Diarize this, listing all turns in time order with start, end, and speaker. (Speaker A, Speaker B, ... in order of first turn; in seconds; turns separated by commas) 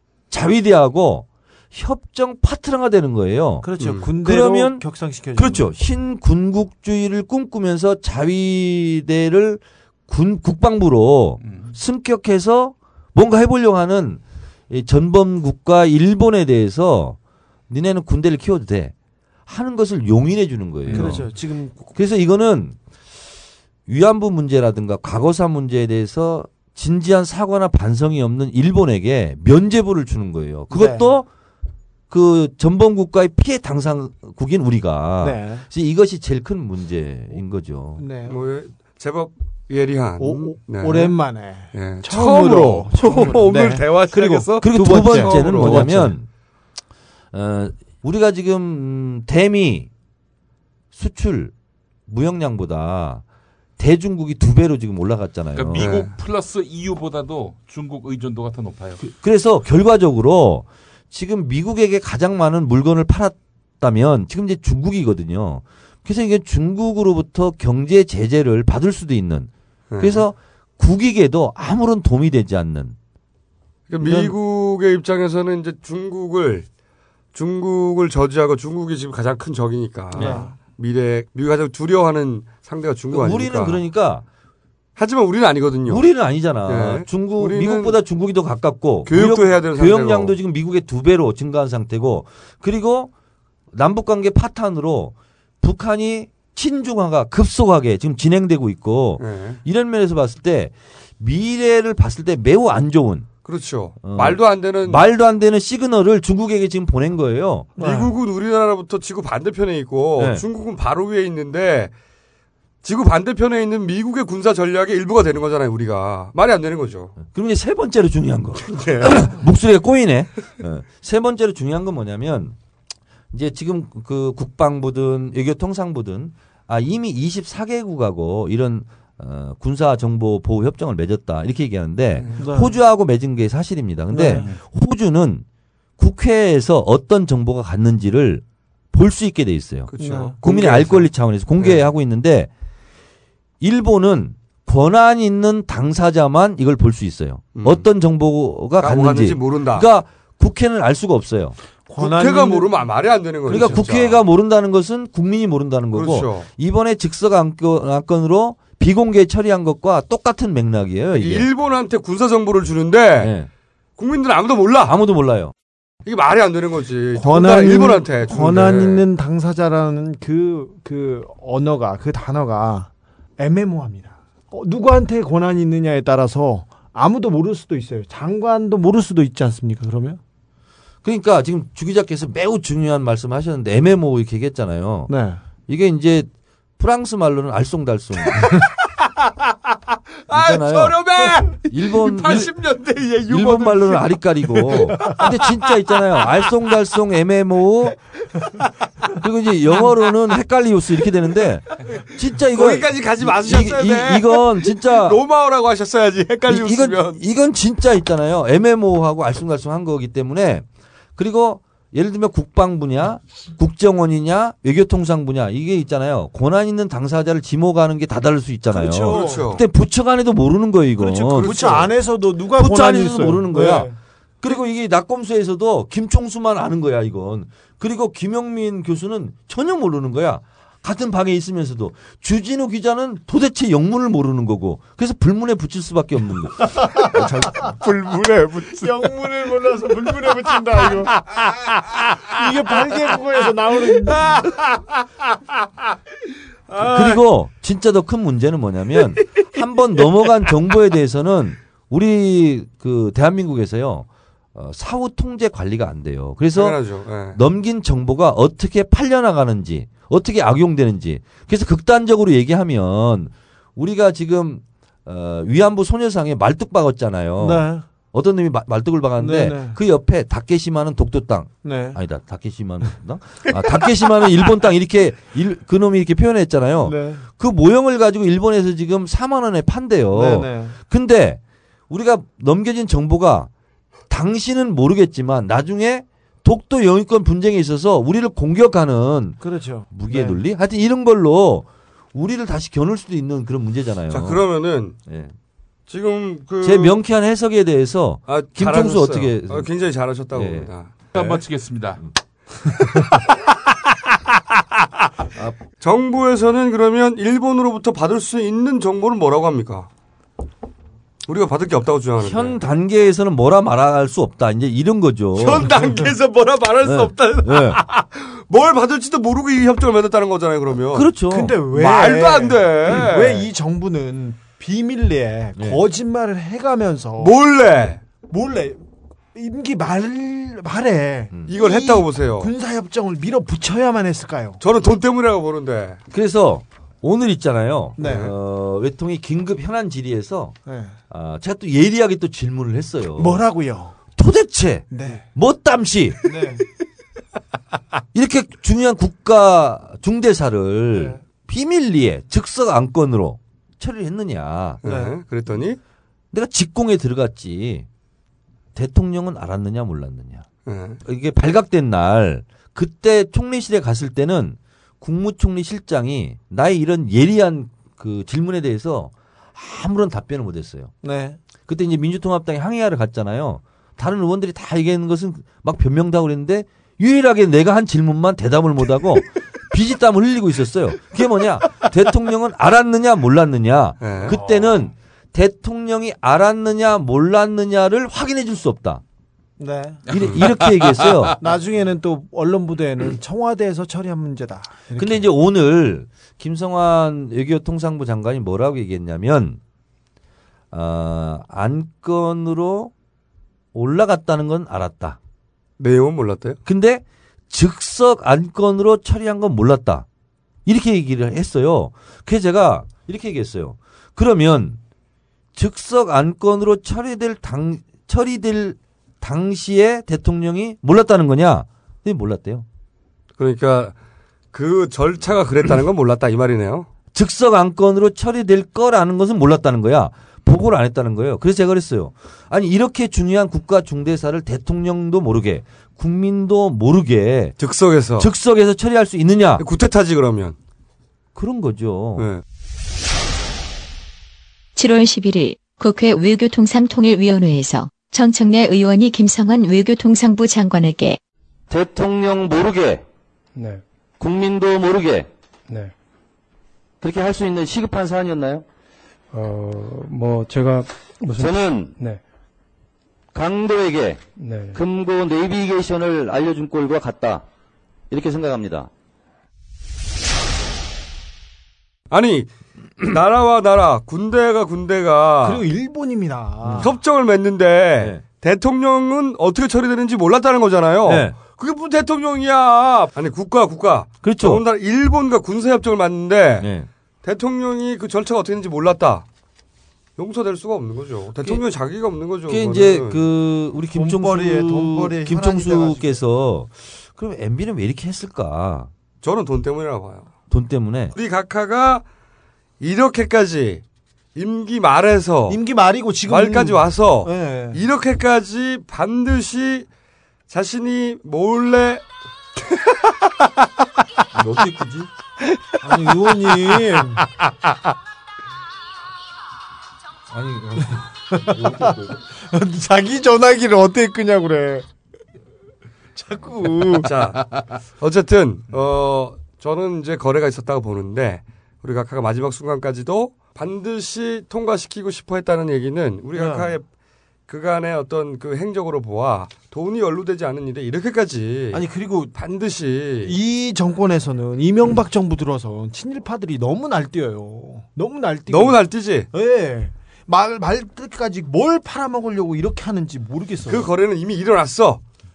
Speaker A: 0.3-17.2, Speaker B: 3.6-5.7, Speaker C: 3.8-4.1, Speaker D: 11.4-11.7, Speaker A: 17.7-18.9, Speaker A: 19.5-21.3, Speaker D: 20.9-21.2, Speaker B: 20.9-21.8, Speaker A: 21.9-22.8, Speaker A: 23.9-31.3, Speaker B: 30.7-31.1, Speaker A: 32.1-38.0, Speaker B: 35.2-35.6, Speaker B: 38.0-38.4, Speaker C: 38.2-41.1, Speaker B: 40.2-46.1, Speaker C: 41.7-45.9, Speaker A: 44.5-46.3, Speaker A: 47.3-49.9, Speaker A: 50.9-51.5, Speaker A: 52.1-53.2, Speaker A: 53.8-55.9, Speaker D: 55.5-59.0, Speaker C: 55.7-56.1, Speaker A: 59.0-73.0, Speaker C: 69.9-70.2, Speaker C: 73.9-76.7, Speaker A: 74.0-74.3, Speaker C: 77.3-83.8, Speaker A: 80.2-80.4, Speaker B: 80.2-80.5, Speaker A: 83.1-84.2, Speaker C: 85.0-86.0, Speaker A: 85.9-93.1, Speaker C: 86.6-88.0, Speaker C: 89.0-90.3, Speaker A: 93.7-103.3, Speaker C: 99.2-99.6, Speaker C: 103.4-105.1, Speaker A: 104.0-107.7, Speaker B: 107.8-108.1, Speaker C: 107.8-111.9, Speaker A: 110.2-110.4, Speaker C: 112.8-117.2, Speaker A: 117.2-122.5, Speaker C: 118.6-119.3, Speaker A: 123.3-135.4, Speaker B: 132.4-132.7, Speaker B: 134.1-134.4, Speaker A: 136.0-142.5, Speaker C: 139.9-141.1, Speaker B: 140.0-140.3, Speaker A: 143.6-151.6, Speaker C: 147.5-147.8, Speaker C: 148.8-149.9, Speaker B: 151.9-152.7, Speaker C: 152.0-154.2, Speaker B: 153.5-153.8, Speaker A: 153.5-161.5, Speaker C: 155.9-156.5, Speaker C: 161.1-163.3, Speaker A: 163.2-163.5, Speaker C: 164.0-164.9, Speaker A: 164.8-165.5, Speaker C: 166.1-169.0, Speaker B: 167.2-180.2, Speaker A: 181.0-185.1, Speaker B: 185.1-185.4, Speaker A: 185.7-188.6, Speaker C: 188.8-189.5, Speaker C: 190.2-196.5, Speaker A: 190.3-192.5, Speaker A: 193.3-198.0, Speaker A: 199.2-205.2, Speaker C: 202.5-207.2, Speaker A: 206.4-221.6, Speaker B: 218.7-219.4, Speaker C: 219.0-219.6, Speaker B: 221.0-223.9, Speaker C: 221.3-221.9, Speaker A: 222.5-223.9, Speaker A: 224.4-237.7, Speaker B: 236.8-237.7, Speaker C: 237.1-239.3, Speaker B: 238.7-241.1, Speaker C: 240.9-242.1, Speaker B: 242.2-244.3, Speaker C: 244.1-244.9, Speaker C: 246.7-247.2, Speaker A: 246.8-256.8, Speaker C: 256.5-257.4, Speaker A: 257.3-283.5, Speaker B: 267.4-267.8, Speaker B: 269.2-269.8, Speaker B: 271.6-272.0, Speaker B: 276.8-277.2, Speaker B: 280.1-280.8, Speaker A: 284.1-294.4, Speaker B: 289.4-290.4, Speaker C: 294.1-294.9, Speaker A: 295.0-295.3, Speaker C: 295.9-296.9, Speaker A: 296.6-299.7, Speaker C: 298.3-301.3, Speaker A: 300.3-301.3, Speaker D: 301.1-302.0, Speaker A: 305.3-305.6, Speaker C: 305.8-309.9, Speaker C: 311.3-312.6, Speaker A: 312.2-315.8, Speaker C: 315.4-321.1, Speaker A: 316.8-317.8, Speaker A: 320.9-321.6, Speaker B: 321.3-327.3, Speaker C: 321.7-323.5, Speaker C: 327.2-328.0, Speaker B: 328.3-328.8, Speaker B: 329.3-334.6, Speaker C: 331.5-332.5, Speaker C: 334.6-336.0, Speaker A: 336.1-340.6, Speaker B: 338.0-338.3, Speaker C: 338.0-338.3, Speaker B: 340.6-340.9, Speaker A: 341.1-343.4, Speaker B: 343.2-343.9, Speaker A: 344.1-346.4, Speaker B: 344.9-345.2, Speaker B: 346.2-346.6, Speaker A: 348.1-354.8, Speaker C: 354.8-355.8, Speaker B: 354.8-355.1, Speaker A: 356.3-357.9, Speaker A: 358.7-360.4, Speaker C: 360.6-361.0, Speaker A: 361.0-370.9, Speaker B: 371.0-371.4, Speaker A: 371.7-389.0, Speaker C: 384.0-384.4, Speaker B: 384.2-384.7, Speaker B: 389.6-390.0, Speaker D: 390.1-391.4, Speaker A: 390.1-391.4, Speaker B: 391.4-395.3, Speaker A: 394.9-399.6, Speaker A: 400.7-402.9, Speaker A: 403.7-405.2, Speaker C: 405.8-406.6, Speaker A: 406.6-410.1, Speaker A: 410.6-414.8, Speaker A: 415.5-422.6, Speaker C: 423.4-423.9, Speaker C: 424.5-426.9, Speaker A: 427.1-437.5, Speaker C: 437.6-438.3, Speaker A: 438.2-439.6, Speaker C: 439.6-440.6, Speaker A: 441.3-442.3, Speaker C: 442.2-442.4, Speaker E: 444.8-451.2, Speaker F: 451.7-453.0, Speaker G: 453.6-453.8, Speaker F: 454.2-455.3, Speaker F: 457.0-458.6, Speaker G: 459.3-462.2, Speaker F: 461.4-461.9, Speaker F: 463.3-464.2, Speaker G: 464.4-464.8, Speaker F: 464.7-467.4, Speaker F: 468.1-468.9, Speaker C: 472.1-472.5, Speaker C: 473.0-475.6, Speaker B: 475.4-476.9, Speaker A: 476.6-476.9, Speaker C: 476.8-486.7, Speaker A: 481.0-481.3, Speaker A: 484.2-484.6, Speaker A: 486.6-486.9, Speaker C: 487.2-489.2, Speaker C: 490.2-493.2, Speaker A: 492.5-498.9, Speaker B: 493.9-496.2, Speaker C: 499.2-500.3, Speaker A: 500.5-501.1, Speaker C: 501.1-502.0, Speaker C: 502.8-503.8, Speaker C: 504.3-505.6, Speaker B: 505.5-507.8, Speaker C: 506.3-509.9, Speaker C: 510.5-512.0, Speaker A: 514.3-515.1, Speaker B: 515.8-517.2, Speaker A: 520.3-522.2, Speaker B: 521.3-524.9, Speaker B: 526.1-527.1, Speaker C: 527.0-536.8, Speaker B: 536.3-536.7, Speaker C: 537.5-543.4, Speaker B: 541.7-542.3, Speaker B: 543.2-548.8, Speaker C: 548.5-549.3, Speaker B: 549.3-553.9, Speaker C: 553.7-555.0